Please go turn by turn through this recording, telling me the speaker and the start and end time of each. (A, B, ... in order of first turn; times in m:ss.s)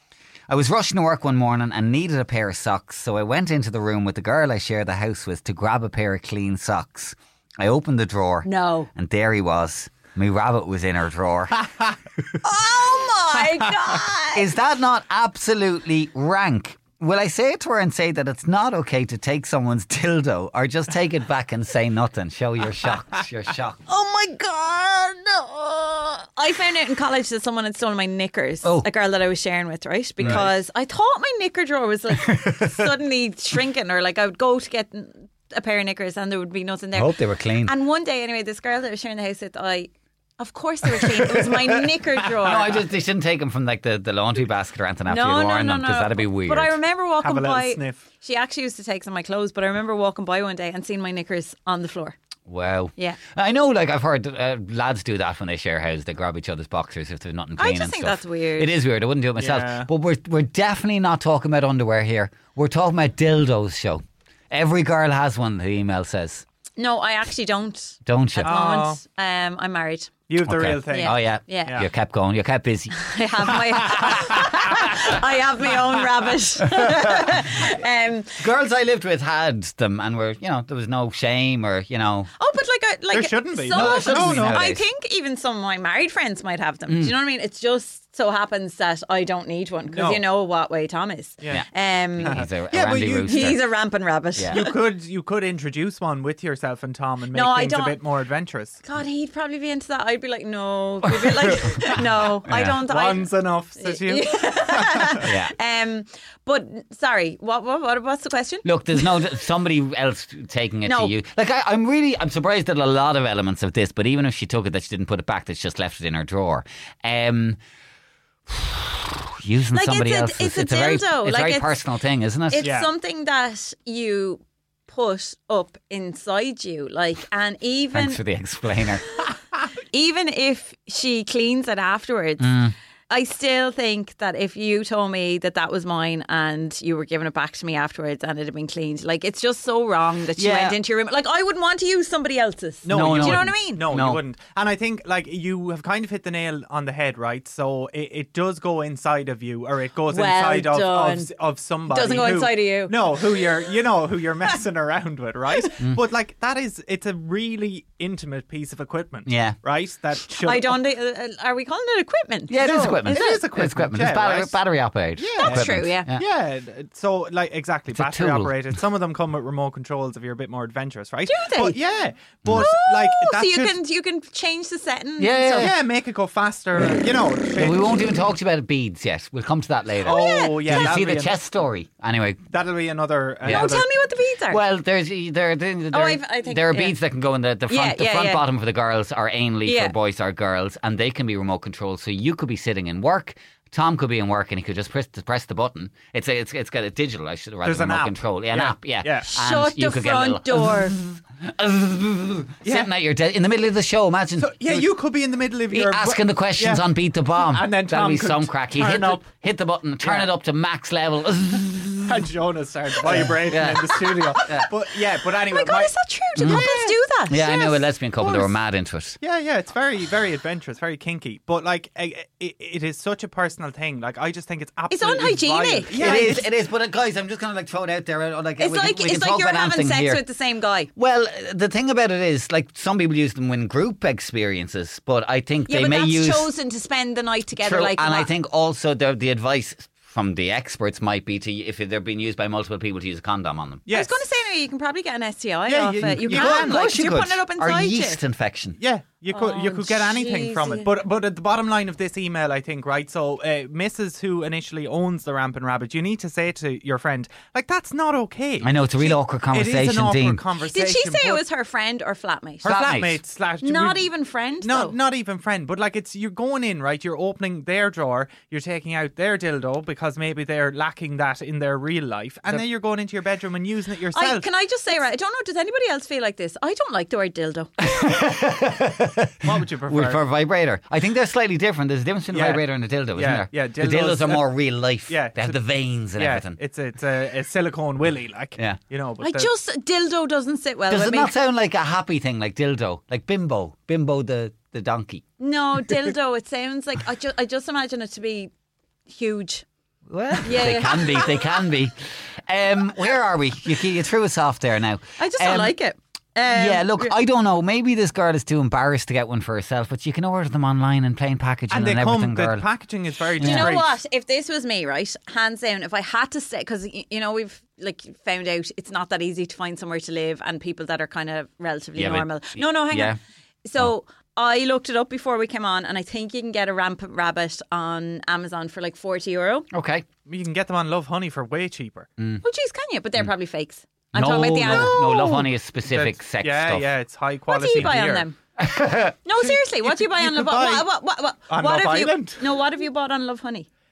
0:00.5-0:11.6 A
0:08.4-0:08.9 B
0:12.4-0:14.5 B
0:14.3-0:23.8 A
0:23.9-0:42.8 B
0:28.6-0:28.9 A
0:30.2-0:30.5 A
0:32.2-0:32.7 A
0:36.9-0:37.7 A
0:42.4-0:46.8 A
0:45.1-0:52.2 B
0:47.2-0:48.0 C
0:52.5-1:06.4 A
0:57.6-0:58.7 B
0:59.4-0:59.9 C
1:06.8-1:10.1 B
1:08.0-1:08.5 A
1:08.4-1:09.0 C
1:10.3-1:11.8 C
1:10.4-1:13.0 A
1:10.9-1:11.8 B
1:12.9-1:18.4 B
1:18.4-1:22.3 A
1:22.4-1:32.4 B
1:23.1-1:24.6 C
1:23.7-1:24.8 A
1:26.9-1:27.2 A
1:29.9-1:30.2 C
1:31.4-1:31.6 C
1:31.5-1:33.6 A
1:32.2-1:33.6 C
1:33.2-1:34.8 B
1:34.3-1:34.6 A
1:34.5-1:38.8 C
1:37.3-1:38.0 B
1:38.8-1:49.3 B
1:42.4-1:42.8 A
1:42.6-1:45.3 C
1:45.2-1:45.5 A
1:48.6-1:57.6 A
1:50.8-1:51.1 B
1:58.5-2:02.7 A
1:59.7-2:01.8 B
2:02.5-2:08.2 B
2:02.6-2:02.9 C
2:07.9-2:09.0 A
2:09.9-2:12.6 B
2:12.4-2:12.7 A
2:13.1-2:23.8 B
2:20.4-2:20.8 A
2:22.8-2:40.8 C
2:22.9-2:24.2 A
2:30.1-2:31.3 B
2:31.9-2:33.4 B
2:39.2-2:39.6 A
2:40.4-2:43.4 B
2:42.5-2:46.2 A
2:42.6-2:44.6 C
2:45.2-2:53.8 C
2:45.4-2:46.1 B
2:47.9-2:48.5 A
2:51.3-2:51.8 B
2:52.4-2:52.7 A
2:52.5-2:55.7 B
2:55.2-2:55.7 A
2:55.6-2:58.2 C
2:57.6-3:02.4 A
3:00.0-3:01.4 C
3:00.0-3:00.9 B
3:02.5-3:03.9 C
3:03.4-3:03.8 A
3:03.4-3:04.6 B
3:04.5-3:24.9 A
3:05.9-3:07.0 B
3:07.7-3:08.4 B
3:09.6-3:09.9 B
3:17.6-3:19.3 C
3:19.2-3:21.0 B
3:22.6-3:22.9 C
3:24.4-3:29.3 C
3:25.7-3:32.2 A
3:30.0-3:30.3 C
3:32.1-3:37.0 C
3:33.0-3:34.7 A
3:35.5-3:37.9 B
3:36.4-3:36.7 A
3:37.3-3:39.2 A
3:38.2-3:38.5 C
3:39.2-3:46.4 C
3:44.9-3:46.4 B
3:45.9-3:50.2 A
3:48.6-3:50.9 B
3:51.0-3:56.5 A
3:55.7-3:58.3 B
3:57.6-4:03.8 A
4:03.8-4:04.2 C
4:03.9-4:08.2 B
4:05.7-4:06.8 C
4:06.0-4:08.8 A
4:08.8-4:21.4 C
4:09.3-4:10.9 B
4:18.6-4:20.4 A
4:20.6-4:22.7 B
4:22.6-4:23.2 A
4:22.6-4:24.1 C
4:23.6-4:25.0 B
4:24.6-4:34.5 C
4:34.1-4:37.7 B
4:37.8-4:46.6 A
4:39.4-4:40.2 C
4:42.3-4:44.5 C
4:45.1-4:49.5 C
4:49.2-4:51.3 B
4:50.9-4:55.2 A
4:55.4-4:58.5 B
4:59.1-4:59.6 B
5:00.1-5:01.9 A
5:00.4-5:01.5 B
5:02.5-5:05.8 A
5:05.2-5:07.2 B
5:06.4-5:12.6 A
5:11.7-5:14.0 C
5:13.4-5:13.7 A
5:13.4-5:29.7 B
5:22.0-5:23.2 A
5:29.7-5:30.0 A
5:30.2-5:32.1 C
5:32.2-5:32.4 A
5:32.4-5:35.5 B
5:34.1-5:36.9 A
5:34.6-5:35.2 C
5:35.8-5:38.3 C
5:37.5-5:38.4 B
5:38.6-5:39.2 A
5:39.2-5:43.7 B
5:39.4-5:40.9 C
5:41.5-5:42.4 C